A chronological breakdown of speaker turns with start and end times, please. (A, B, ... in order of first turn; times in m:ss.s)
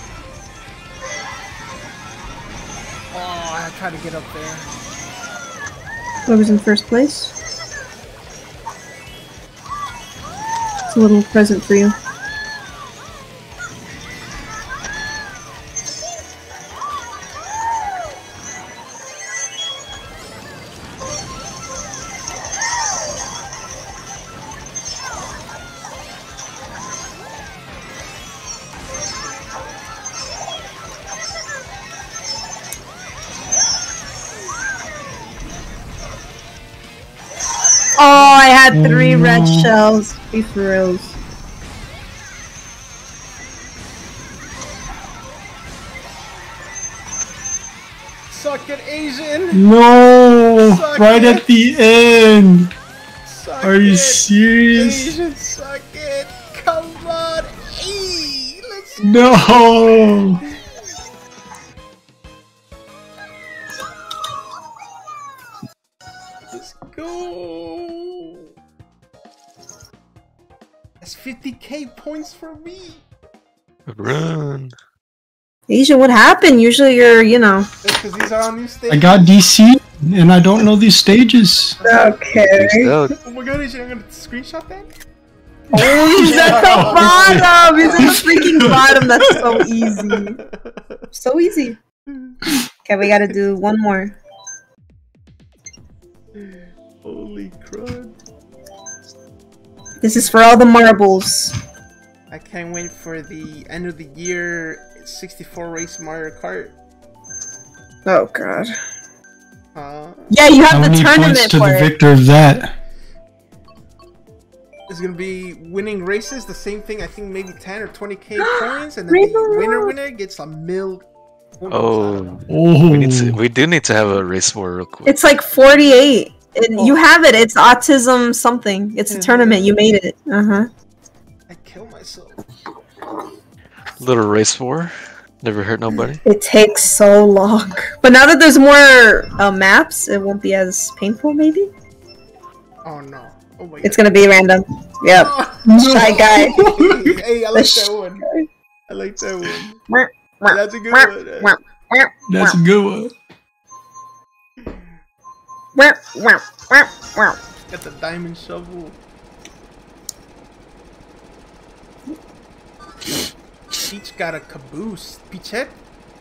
0:03.1-0:04.7 A
0:06.3-0:07.3 B
0:10.9-0:11.9 B
0:38.0-0:41.2 B
0:38.1-0:38.5 A
0:38.7-0:39.7 C
0:48.3-0:49.6 A
0:49.5-0:52.7 C
0:50.6-0:51.4 A
0:53.2-0:59.8 A
0:53.6-0:55.1 C
0:59.0-1:00.4 C
1:06.5-1:08.4 A
1:11.0-1:13.0 A
1:13.9-1:14.7 D
1:15.7-1:17.7 B
1:17.8-1:19.4 A
1:18.9-1:21.8 C
1:21.8-1:22.2 A
1:21.8-1:22.9 B
1:22.5-1:23.2 D
1:23.2-1:24.9 A
1:25.7-1:30.4 B
1:26.1-1:30.9 A
1:26.1-1:29.3 C
1:31.1-1:31.8 B
1:32.1-1:32.4 A
1:32.8-1:34.1 B
1:36.4-1:38.1 A
1:40.0-1:41.5 B
1:42.3-1:46.7 A
1:48.0-1:48.7 B
1:49.7-1:50.3 A
1:50.3-1:51.9 B
1:50.7-1:52.7 C
1:54.9-2:01.0 A
1:58.4-1:59.9 B
2:01.6-2:02.4 A
2:01.7-2:05.1 D
2:02.5-2:03.4 C
2:05.0-2:10.7 B
2:09.1-2:09.7 A
2:11.5-2:12.4 A
2:14.0-2:16.2 D
2:16.2-2:21.7 B
2:22.8-2:24.2 A
2:23.8-2:26.7 B
2:25.1-2:28.2 A
2:25.6-2:27.1 C
2:27.5-2:28.5 B
2:28.9-2:29.8 A
2:29.9-2:32.6 B
2:30.5-2:31.6 A
2:32.3-2:33.1 C
2:35.8-2:37.4 B
2:37.7-2:39.0 A
2:43.9-2:45.8 A